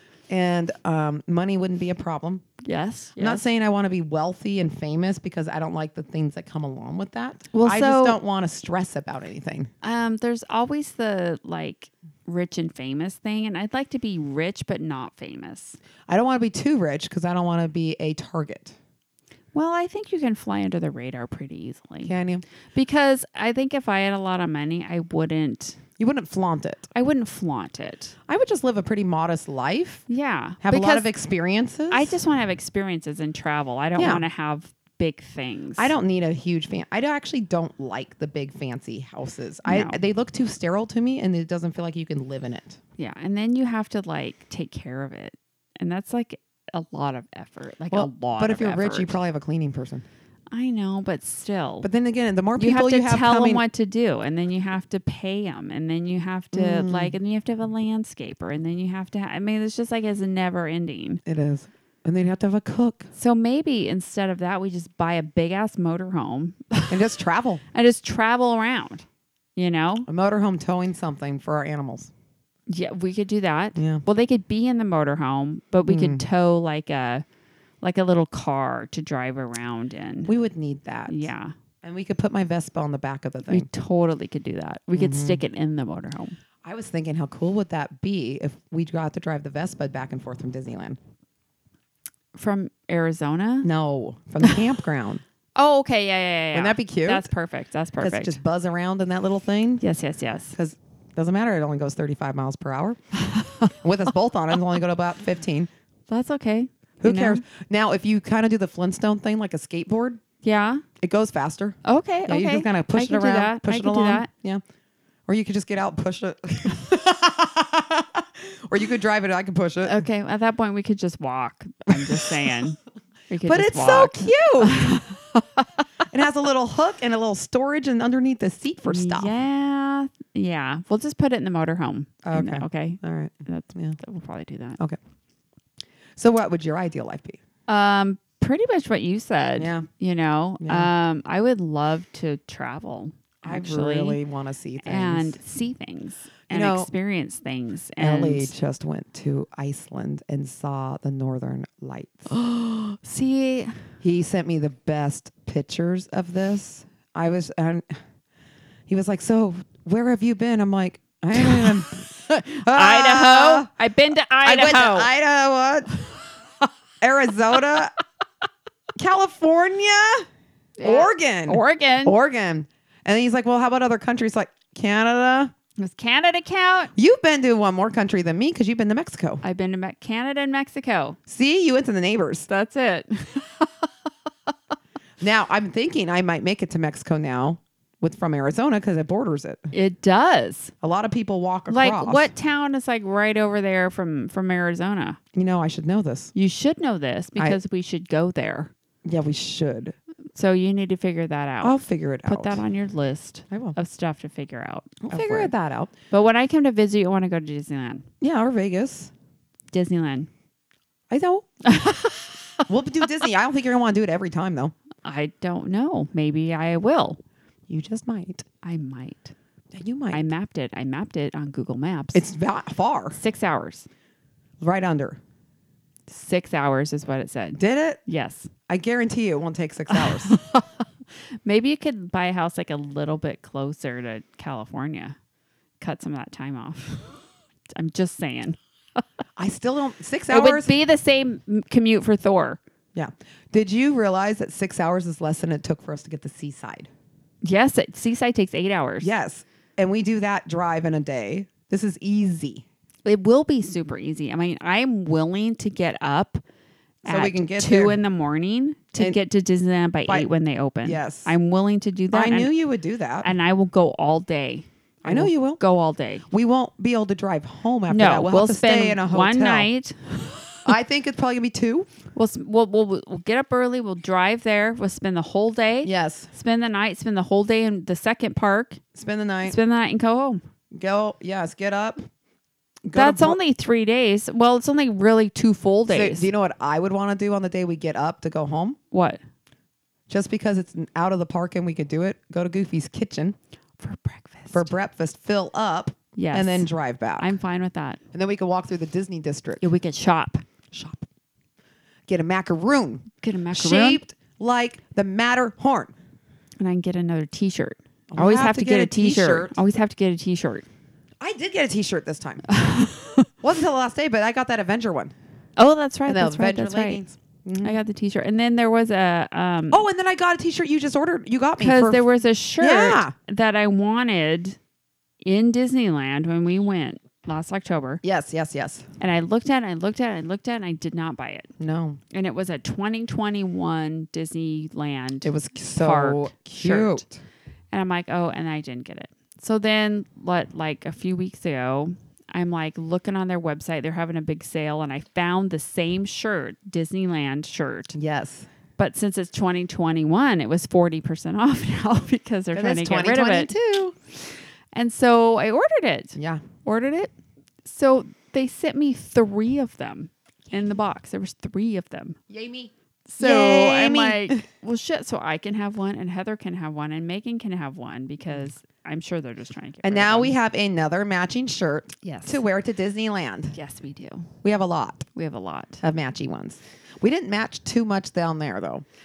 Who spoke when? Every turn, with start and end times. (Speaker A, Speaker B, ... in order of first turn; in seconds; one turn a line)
Speaker A: 0.3-2.4
Speaker B: 2.6-3.5
Speaker A: 3.2-9.7
Speaker B: 7.5-8.2
Speaker B: 9.8-15.8
Speaker A: 16.1-18.8
Speaker B: 19.5-22.1
Speaker A: 22.0-22.4
Speaker B: 22.7-25.8
Speaker A: 26.0-26.9
Speaker B: 26.9-28.1
Speaker A: 28.3-30.1
Speaker B: 30.1-31.1
Speaker A: 30.6-32.1
Speaker B: 31.9-35.9
Speaker A: 34.0-34.2
Speaker A: 35.8-42.8
Speaker B: 39.6-40.0
Speaker B: 43.0-49.2
Speaker A: 47.9-50.0
Speaker B: 50.5-51.9
Speaker A: 51.8-53.6
Speaker B: 52.6-61.2
Speaker A: 56.5-57.1
Speaker A: 61.3-63.1
Speaker B: 63.1-67.1
Speaker A: 66.9-67.6
Speaker B: 67.7-70.1
Speaker A: 70.1-72.1
Speaker B: 72.7-77.2
Speaker A: 73.8-74.0
Speaker A: 75.8-76.3
Speaker B: 77.8-80.3
Speaker A: 80.3-81.3
Speaker B: 81.1-81.5
Speaker A: 81.8-83.7
Speaker B: 83.5-86.4
Speaker A: 84.9-85.4
Speaker A: 86.6-91.0
Speaker B: 92.3-93.7
Speaker A: 93.6-95.2
Speaker B: 95.6-98.4
Speaker A: 96.5-97.3
Speaker A: 98.0-99.8
Speaker B: 99.8-100.6
Speaker A: 100.5-103.0
Speaker B: 103.3-103.7
Speaker A: 103.7-105.7
Speaker B: 106.1-107.4
Speaker A: 107.0-110.2
Speaker B: 110.4-110.8
Speaker A: 111.0-114.6
Speaker B: 111.8-114.3
Speaker A: 115.3-120.0
Speaker B: 119.8-122.8
Speaker A: 121.9-122.5
Speaker B: 123.3-125.8
Speaker A: 123.5-125.0
Speaker A: 126.1-129.3
Speaker B: 128.9-134.8
Speaker A: 132.2-134.0
Speaker A: 136.2-137.4
Speaker B: 137.7-144.2
Speaker A: 139.6-139.9
Speaker A: 140.6-140.9
Speaker A: 143.4-145.4
Speaker B: 144.8-148.5
Speaker A: 146.5-146.9
Speaker A: 148.0-152.3
Speaker B: 152.3-153.9
Speaker A: 154.0-158.0
Speaker A: 158.9-163.7
Speaker B: 161.3-165.1
Speaker A: 164.4-165.9
Speaker A: 167.0-167.9
Speaker A: 169.0-170.3
Speaker B: 170.8-172.2
Speaker A: 170.8-175.5
Speaker B: 175.8-176.9
Speaker A: 177.0-179.4
Speaker B: 179.4-181.2
Speaker A: 181.3-182.5
Speaker B: 182.5-183.9
Speaker A: 185.2-189.7
Speaker B: 189.7-190.7
Speaker A: 190.8-192.3
Speaker B: 191.7-195.2
Speaker A: 195.3-196.3
Speaker B: 196.3-198.7
Speaker A: 199.1-200.0
Speaker B: 200.3-205.5
Speaker A: 201.6-202.6
Speaker A: 203.5-203.8
Speaker A: 205.1-205.9
Speaker B: 206.1-208.1
Speaker A: 208.2-209.1
Speaker B: 209.7-210.3
Speaker A: 211.1-211.5
Speaker B: 211.7-212.7
Speaker A: 212.7-214.7
Speaker B: 215.0-217.2
Speaker A: 217.7-218.4
Speaker B: 218.6-219.3
Speaker A: 219.7-220.2
Speaker B: 220.1-222.3
Speaker A: 222.1-223.2
Speaker B: 223.1-223.9
Speaker A: 224.6-225.2
Speaker B: 226.1-228.5
Speaker A: 227.6-228.0
Speaker A: 228.7-230.4
Speaker B: 229.9-230.8
Speaker B: 231.4-235.2
Speaker B: 235.8-237.2
Speaker B: 237.7-239.0
Speaker A: 239.4-240.8
Speaker B: 240.3-242.6
Speaker A: 242.9-246.9
Speaker B: 247.4-249.1
Speaker A: 249.0-252.7
Speaker B: 253.1-256.4
Speaker A: 257.1-258.0
Speaker B: 257.1-262.5
Speaker A: 260.8-261.3
Speaker A: 262.1-263.3
Speaker B: 263.2-266.3
Speaker A: 265.1-265.6
Speaker A: 266.3-269.7
Speaker B: 267.9-270.7
Speaker A: 270.6-271.9
Speaker B: 272.1-278.8
Speaker A: 275.8-276.3
Speaker A: 278.9-279.6
Speaker B: 279.4-280.4
Speaker A: 280.7-282.1
Speaker A: 282.9-283.4
Speaker B: 282.9-286.3
Speaker A: 285.9-288.8
Speaker B: 288.9-289.2
Speaker A: 290.1-293.4
Speaker B: 293.8-294.7
Speaker A: 294.5-297.4
Speaker B: 296.2-298.0
Speaker A: 298.1-299.6
Speaker B: 299.6-300.4
Speaker A: 300.7-301.1
Speaker A: 302.1-305.9
Speaker B: 303.2-304.0
Speaker B: 306.6-310.7
Speaker A: 308.1-309.6
Speaker A: 311.2-312.5
Speaker B: 312.5-313.3
Speaker A: 313.4-315.1
Speaker B: 315.6-317.0
Speaker A: 316.1-317.8
Speaker B: 317.6-319.8
Speaker A: 319.7-322.0
Speaker B: 321.6-324.6
Speaker A: 322.6-323.1
Speaker B: 325.2-328.0
Speaker A: 328.0-328.9
Speaker B: 329.0-331.5
Speaker A: 331.6-332.0
Speaker B: 332.1-337.0
Speaker A: 335.2-337.2
Speaker B: 337.7-348.0
Speaker A: 347.9-348.5
Speaker B: 348.8-353.5
Speaker A: 352.5-353.9
Speaker B: 354.1-357.1
Speaker A: 356.2-356.4
Speaker B: 357.6-362.2
Speaker A: 362.3-364.4
Speaker B: 363.1-370.4
Speaker A: 369.8-373.6
Speaker B: 372.0-372.4
Speaker B: 373.5-374.3
Speaker A: 374.4-375.1
Speaker B: 375.1-375.8
Speaker A: 375.8-378.9